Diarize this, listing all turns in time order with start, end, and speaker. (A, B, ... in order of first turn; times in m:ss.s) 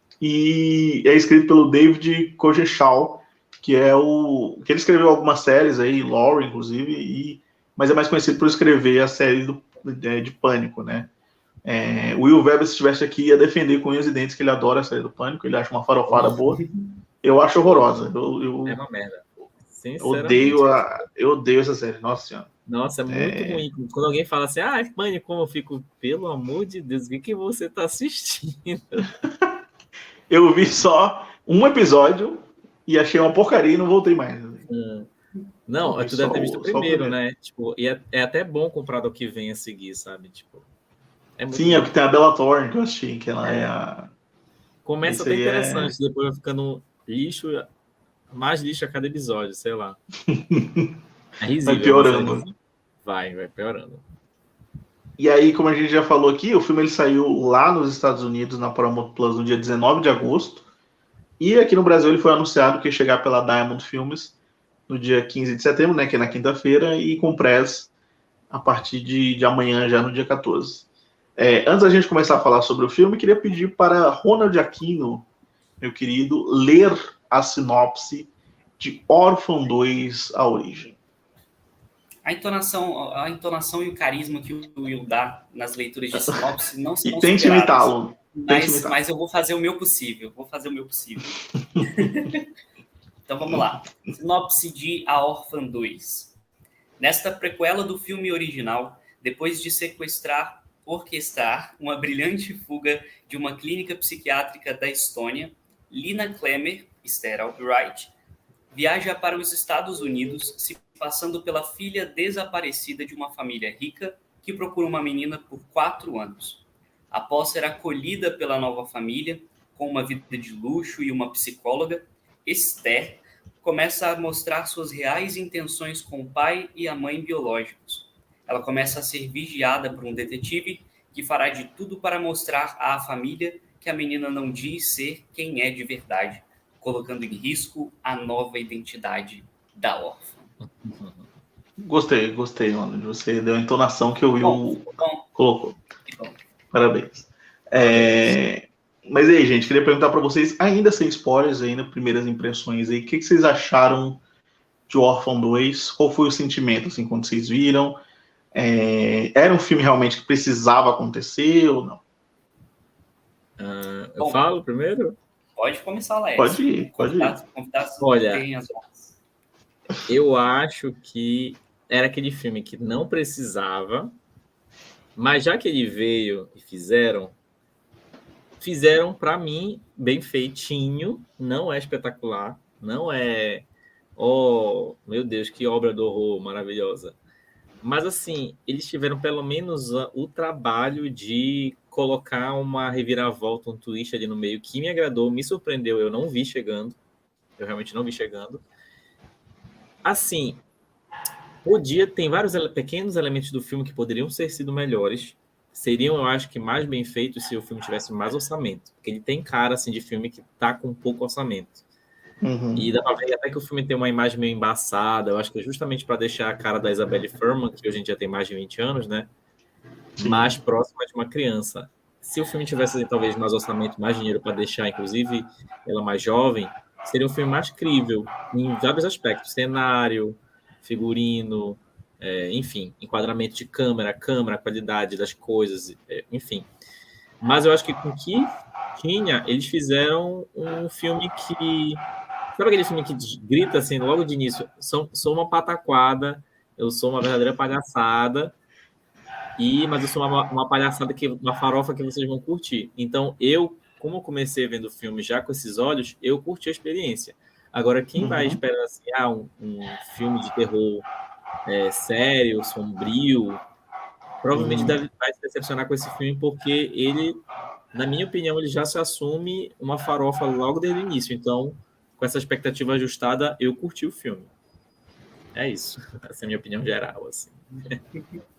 0:00.2-0:11.1 A
0:11.6-0:16.6 A
0:16.1-0:16.3 B
0:17.2-0:18.8 A
0:18.6-0:21.0 B
0:20.0-0:22.5 A
0:22.7-0:29.1 B
0:23.1-0:23.6 A
0:30.3-0:34.7 A
0:34.7-0:35.1 B
0:35.7-0:40.7 B
0:35.8-0:37.2 A
0:41.4-0:41.9 B
0:41.5-0:44.1 A
0:43.4-0:43.7 B
0:44.8-0:47.7 B
0:45.0-0:45.9 A
0:48.3-0:50.0 B
0:50.3-0:50.9 A
0:51.4-0:54.0 B
0:51.7-0:52.4 A
0:55.2-1:00.6 A
1:01.4-1:04.4 A
1:04.9-1:07.9 A
1:08.5-1:15.3 A
1:15.8-1:21.0 A
1:22.2-1:32.4 C
1:27.0-1:29.0 A
1:33.3-1:36.3 C
1:33.5-1:33.9 A
1:37.0-1:48.1 C
1:48.7-2:20.5 C
2:20.6-2:21.3 B
2:21.8-2:25.8 A
2:24.4-2:25.3 C
2:26.0-2:26.4 C
2:26.7-2:34.2 A
2:27.8-2:28.4 B
2:34.9-2:38.0 A
2:38.5-2:42.0 A
2:43.6-2:45.2 B
2:45.6-2:49.2 C
2:46.4-2:47.4 A
2:48.0-2:48.4 B
2:50.1-2:54.1 B
2:55.2-2:57.4 B
2:58.6-3:07.2 B
3:07.8-3:17.0 B
3:17.6-3:18.6 B
3:20.0-3:20.6 B
3:21.6-3:31.8 B
3:32.4-3:32.9 A
3:32.8-3:39.3 B
3:40.2-3:40.5 A
3:40.2-3:56.7 B
3:57.4-4:02.0 B
4:02.5-4:08.6 B
4:09.6-4:21.1 B
4:18.2-4:18.6 A
4:21.7-4:23.6 B
4:24.4-4:34.5 B
4:24.5-4:25.0 A
4:35.5-4:38.0 B